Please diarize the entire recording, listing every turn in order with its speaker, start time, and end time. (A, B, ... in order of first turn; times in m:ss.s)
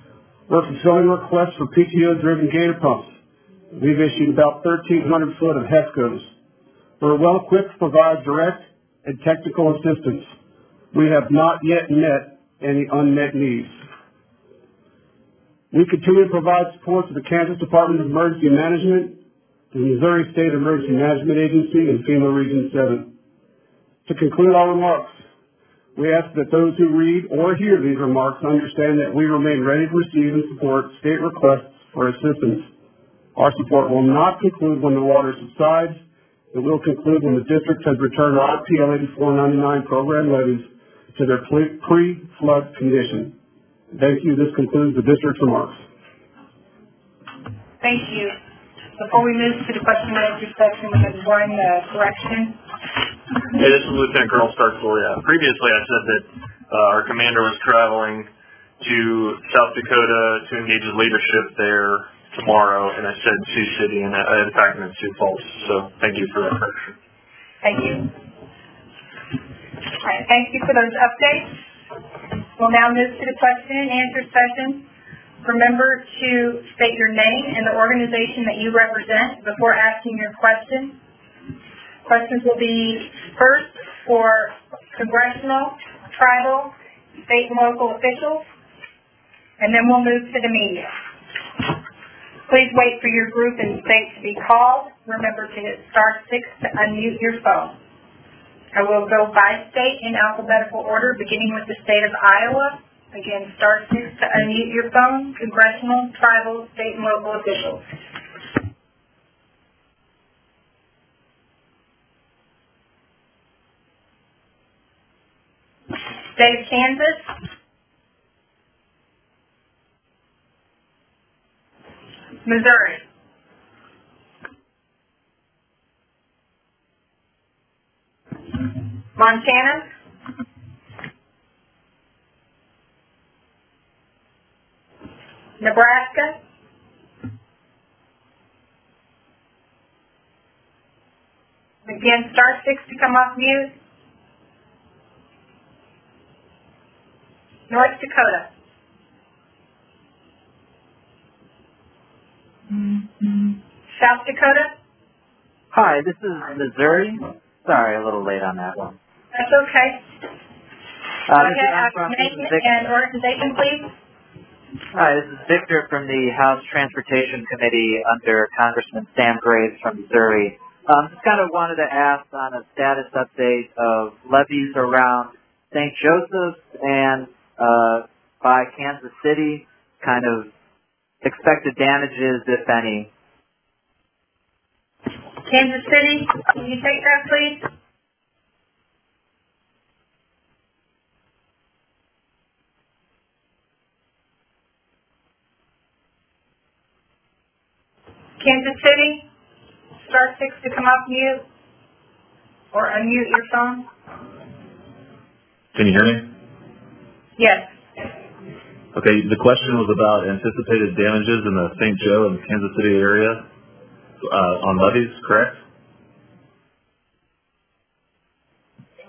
0:00.5-0:03.2 A
0:03.7-0:06.4 A
0:07.0-0:10.4 A
0:10.9-0:13.8 A
0:15.7-0:19.2 A
0:19.7-0:23.1 A
0:24.1-0:25.2 A
0:26.0-0:32.7 A
0:33.4-0:43.4 A
0:43.9-0:45.8 A
0:47.8-0:48.3 B
0:49.0-0:52.6 B
0:53.5-0:58.3 C
0:58.8-1:07.0 C
1:07.6-1:08.1 B
1:10.0-1:11.5 B
1:12.6-1:14.9 B
1:15.4-1:21.0 B
1:22.0-1:26.7 B
1:27.3-1:28.4 B
1:29.6-1:30.9 B
1:32.5-1:37.8 B
1:38.7-1:47.8 B
1:56.3-1:57.3 B
2:02.4-2:03.0 B
2:09.2-2:09.9 B
2:15.6-2:16.4 B
2:21.9-2:23.7 B
2:27.7-2:28.5 B
2:34.0-2:34.7 B
2:35.7-2:39.0 D
2:39.3-2:40.0 B
2:41.3-2:42.8 D
2:41.3-2:43.9 B
2:44.9-3:00.5 D
3:01.2-3:03.1 D
3:05.4-3:07.7 B
3:18.4-3:19.3 B
3:20.0-3:21.4 B
3:22.7-3:23.9 B
3:25.7-3:26.3 E
3:27.4-3:27.7 B
3:28.9-3:33.5 E
3:34.2-3:35.6 E